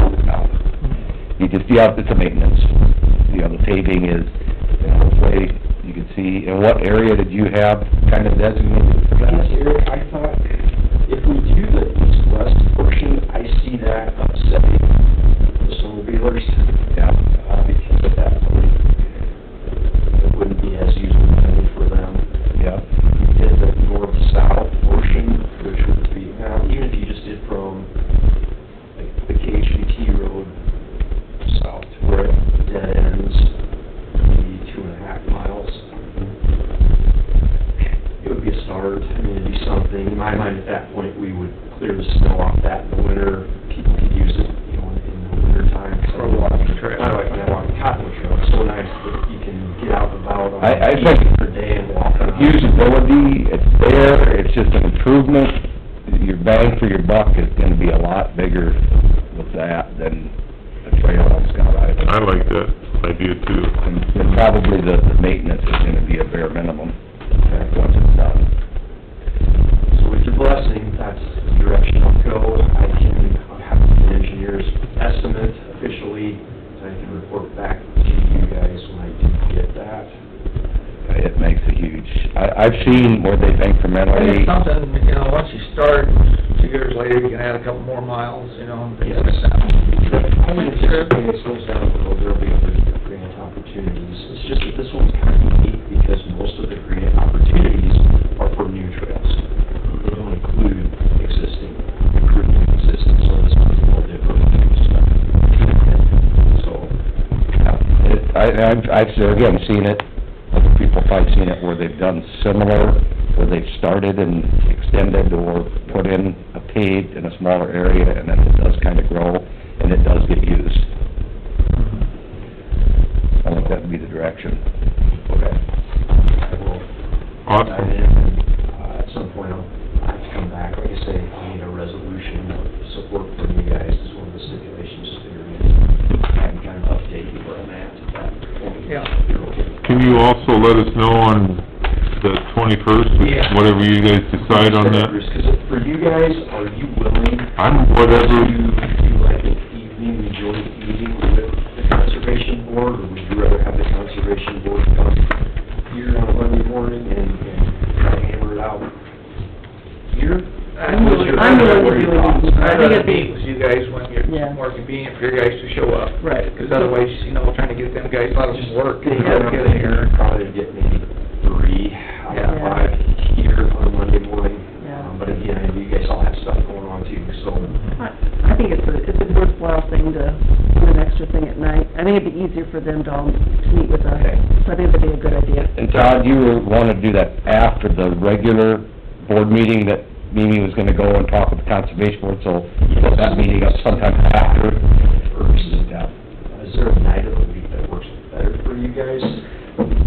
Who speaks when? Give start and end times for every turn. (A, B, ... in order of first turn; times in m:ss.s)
0:00.2-0:00.5 A
0:01.4-0:02.7 A
0:03.3-0:09.6 A
0:09.2-0:10.5 B
0:11.0-0:14.9 B
0:15.6-0:18.9 B
0:20.2-0:22.3 B
0:22.6-0:22.8 A
0:23.2-0:27.9 B
0:29.0-0:30.6 B
0:31.4-0:33.5 B
0:34.2-0:36.3 B
0:38.2-0:52.6 B
0:46.1-0:47.2 C
0:50.6-0:51.4 A
0:52.3-1:00.3 A
1:00.8-1:02.1 A
1:02.0-1:03.8 D
1:03.8-1:08.5 A
1:07.4-1:07.7 B
1:09.9-1:20.2 B
1:21.1-1:24.6 A
1:24.1-1:29.8 C
1:29.0-1:46.9 B
1:30.5-1:31.1 E
1:47.6-2:00.9 A
2:03.4-2:04.6 A
2:05.3-2:06.9 B
2:07.5-2:07.9 D
2:07.6-2:20.2 B
2:18.9-2:19.1 C
2:19.8-2:21.6 D
2:22.2-2:25.1 D
2:23.2-2:23.6 C
2:24.4-2:35.3 B
2:27.6-2:28.6 D
2:35.9-2:38.9 B
2:40.1-2:42.5 B
2:40.8-2:50.1 C
2:40.8-2:43.4 E
2:44.2-2:44.7 E
2:46.2-2:46.9 E
2:48.5-2:57.8 B
2:49.2-2:49.5 E
2:52.3-2:52.6 C
2:52.4-2:52.9 E
2:54.8-2:55.1 E
2:57.6-2:58.0 C
2:58.0-3:05.7 E
3:05.8-3:14.8 A
3:12.8-3:19.5 B
3:15.6-3:16.1 A